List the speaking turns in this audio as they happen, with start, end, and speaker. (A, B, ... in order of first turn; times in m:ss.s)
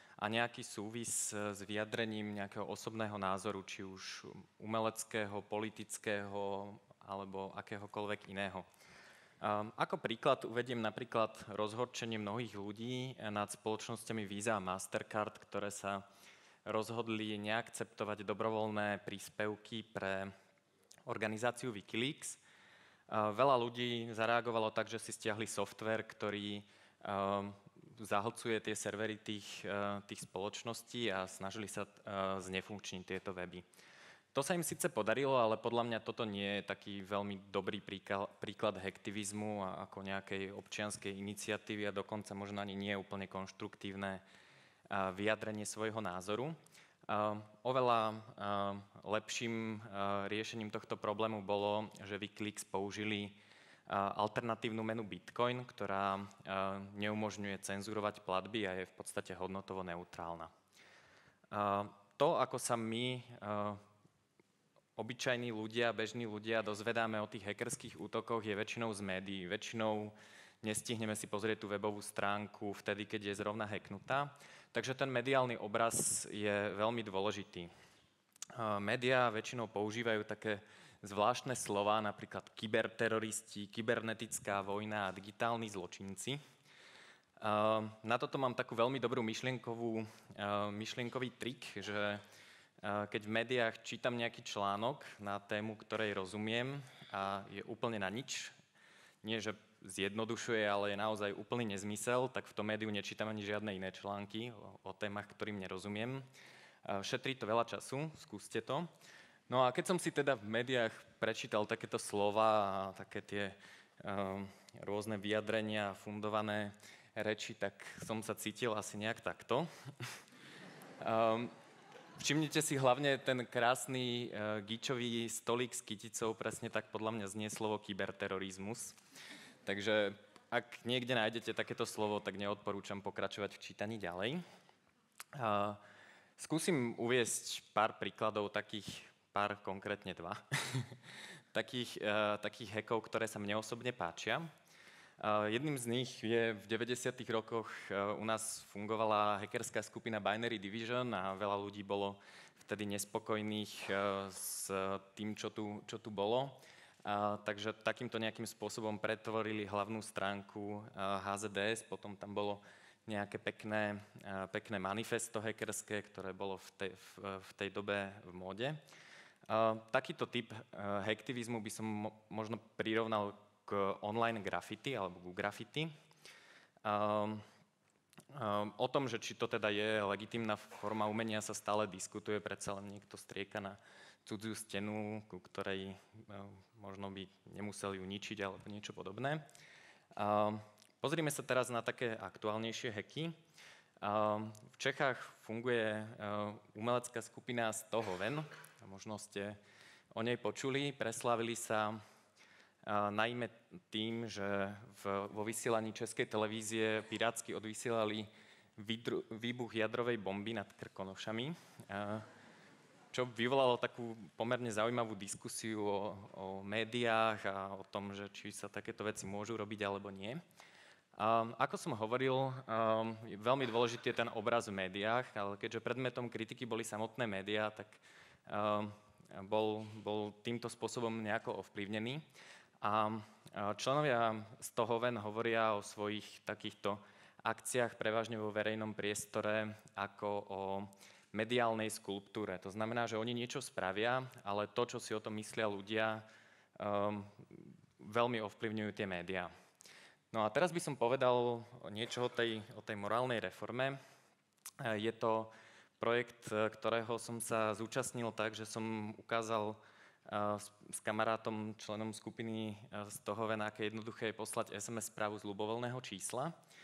0:00.2-0:08.7 A
0:09.4-0:16.0 A
0:16.6-0:20.3 A
0:21.1-0:22.4 A
0:23.1-0:33.6 A
0:34.3-0:44.2 A
0:44.9-0:46.6 A
0:47.1-1:00.5 A
1:01.5-1:03.8 A
1:05.0-1:17.7 A
1:18.5-1:26.4 A
1:27.4-1:32.2 A
1:32.8-1:38.5 A
1:39.2-1:46.3 A
1:46.8-1:48.9 A
1:49.5-1:59.7 A
2:01.0-2:01.5 A
2:02.2-2:09.0 A
2:09.6-2:14.4 A
2:15.3-2:15.8 A
2:16.4-2:21.0 A
2:21.5-2:24.5 A
2:25.2-2:48.8 A
2:49.5-2:55.9 A
2:56.8-2:57.4 A
2:58.3-3:09.4 A
3:10.1-3:13.3 A
3:14.0-3:19.6 A
3:20.1-3:22.0 A
3:22.8-3:32.2 A
3:33.1-3:40.4 A
3:41.2-3:52.2 A
3:52.8-4:06.2 A
4:06.8-4:09.5 A
4:10.3-4:14.0 A
4:14.8-4:26.5 A